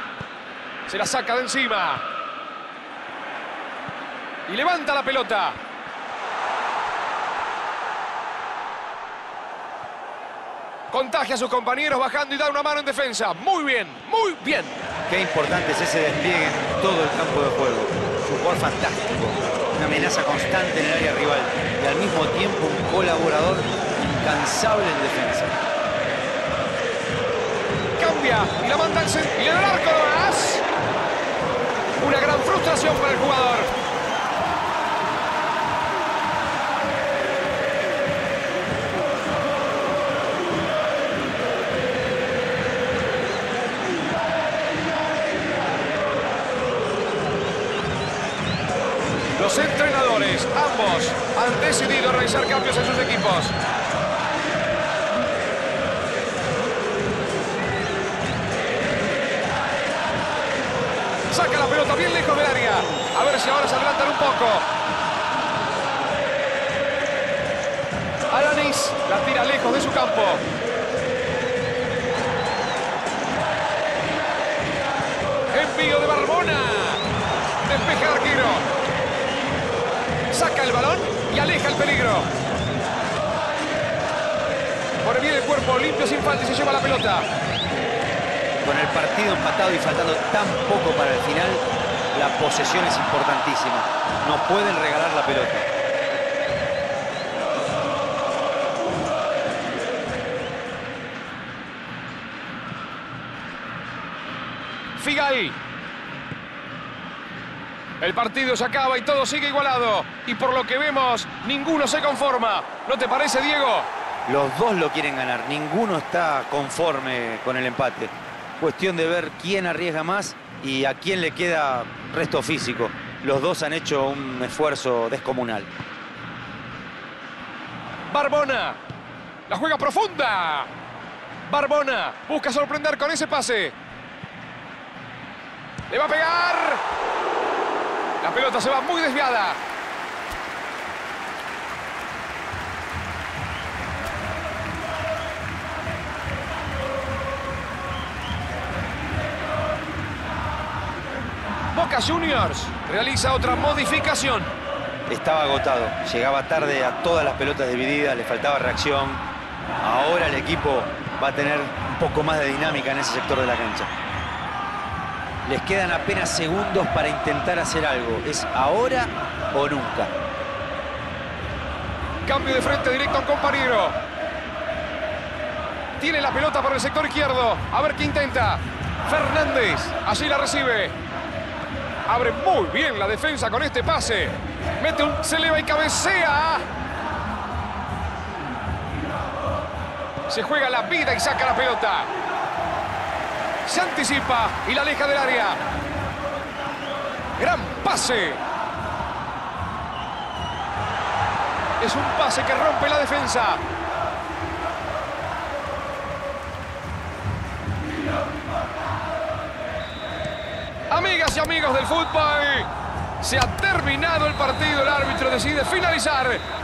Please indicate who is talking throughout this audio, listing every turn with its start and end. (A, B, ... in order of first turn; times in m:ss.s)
0:00.9-0:02.0 A
0:04.4-0:05.6 A
0:10.9-0:14.8 A
0:15.1-0:25.6 B
0:28.0-0:30.6 A
0:32.0-0:33.7 A
0:49.4-0:53.5 A
1:01.3-1:04.6 A
1:08.3-1:10.4 A
1:15.5-1:17.0 A
1:17.6-1:18.6 A
1:20.3-1:22.3 A
1:25.0-1:27.3 A
1:28.6-1:35.6 B
1:45.0-1:45.6 A
1:48.0-1:53.9 A
1:54.2-2:05.7 B
2:08.1-2:08.8 A
2:09.5-2:10.7 A
2:11.4-2:13.7 A
2:15.9-2:16.8 A
2:18.2-2:19.6 A
2:31.7-2:34.5 A
2:35.1-2:39.2 B
2:39.8-2:43.9 B
2:45.4-2:50.1 B
2:52.2-2:54.0 A
2:56.0-3:01.0 A
3:02.1-3:06.6 A
3:10.3-3:12.1 A
3:13.6-3:15.6 A
3:17.4-3:18.4 A
3:21.8-3:23.6 A
3:30.9-3:32.7 A
3:33.2-3:36.4 A